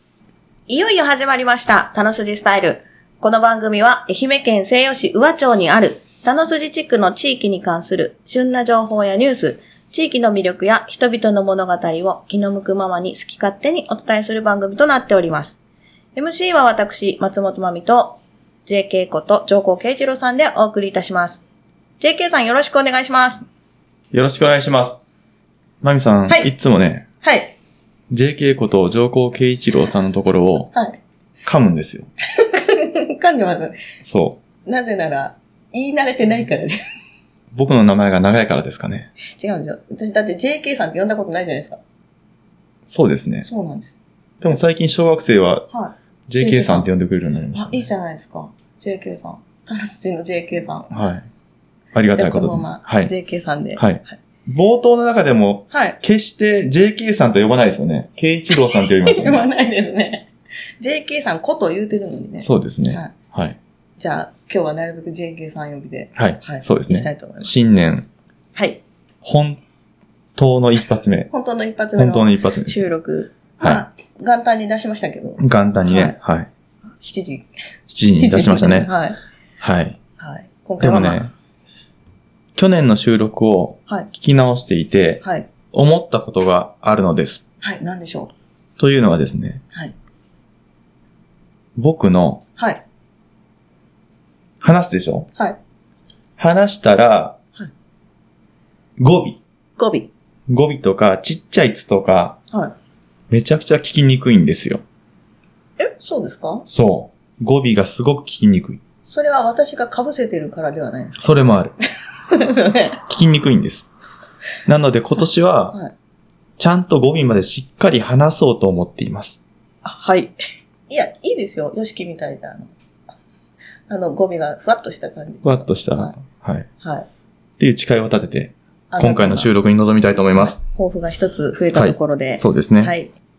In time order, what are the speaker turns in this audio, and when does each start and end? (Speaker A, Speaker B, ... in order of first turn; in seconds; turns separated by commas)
Speaker A: 0.7-15.6, Speaker A: 16.1-21.4, Speaker A: 22.0-23.4, Speaker B: 24.1-25.0, Speaker B: 25.8-27.1, Speaker A: 27.2-27.6, Speaker B: 28.1-30.7, Speaker A: 30.7-31.0, Speaker B: 31.4-32.1, Speaker A: 32.4-33.8, Speaker B: 34.0-34.4, Speaker A: 34.6-36.8, Speaker B: 37.5-39.1, Speaker A: 39.3-41.8, Speaker B: 42.9-43.5, Speaker A: 43.4-43.9, Speaker B: 44.4-45.7, Speaker A: 45.7-46.9, Speaker B: 46.3-47.9, Speaker A: 47.5-50.9, Speaker B: 50.9-51.2, Speaker B: 51.9-53.1, Speaker A: 52.1-54.2, Speaker B: 53.8-59.5, Speaker A: 55.7-56.0, Speaker A: 58.5-60.3, Speaker A: 60.8-63.1, Speaker B: 62.4-63.6, Speaker A: 64.0-67.5, Speaker B: 66.2-68.0, Speaker A: 68.5-68.8, Speaker B: 69.2-69.6, Speaker B: 70.3-71.3, Speaker A: 71.3-76.2, Speaker B: 72.0-72.9, Speaker B: 75.4-76.5, Speaker A: 77.0-77.5, Speaker B: 77.9-78.9, Speaker A: 78.2-79.2, Speaker B: 79.6-80.0, Speaker A: 80.2-81.2, Speaker B: 80.8-81.3, Speaker B: 82.5-87.4, Speaker A: 85.2-85.5, Speaker A: 87.6-88.3, Speaker B: 88.8-89.6, Speaker B: 91.8-92.4, Speaker A: 92.6-92.8, Speaker B: 94.6-95.3, Speaker B: 96.4-97.4, Speaker B: 99.0-99.4, Speaker A: 99.8-100.1, Speaker B: 100.5-102.4, Speaker B: 103.3-104.8, Speaker A: 105.8-106.7, Speaker B: 106.7-108.8, Speaker A: 109.0-111.2, Speaker B: 111.2-111.7, Speaker A: 112.3-113.0, Speaker B: 113.1-113.9, Speaker B: 114.7-115.8, Speaker B: 116.6-119.4, Speaker A: 119.8-120.3, Speaker A: 120.9-122.7, Speaker A: 123.9-126.2, Speaker B: 125.4-126.7, Speaker A: 126.8-127.1, Speaker B: 127.6-130.6, Speaker A: 128.9-129.5, Speaker A: 130.4-133.1, Speaker B: 131.7-132.9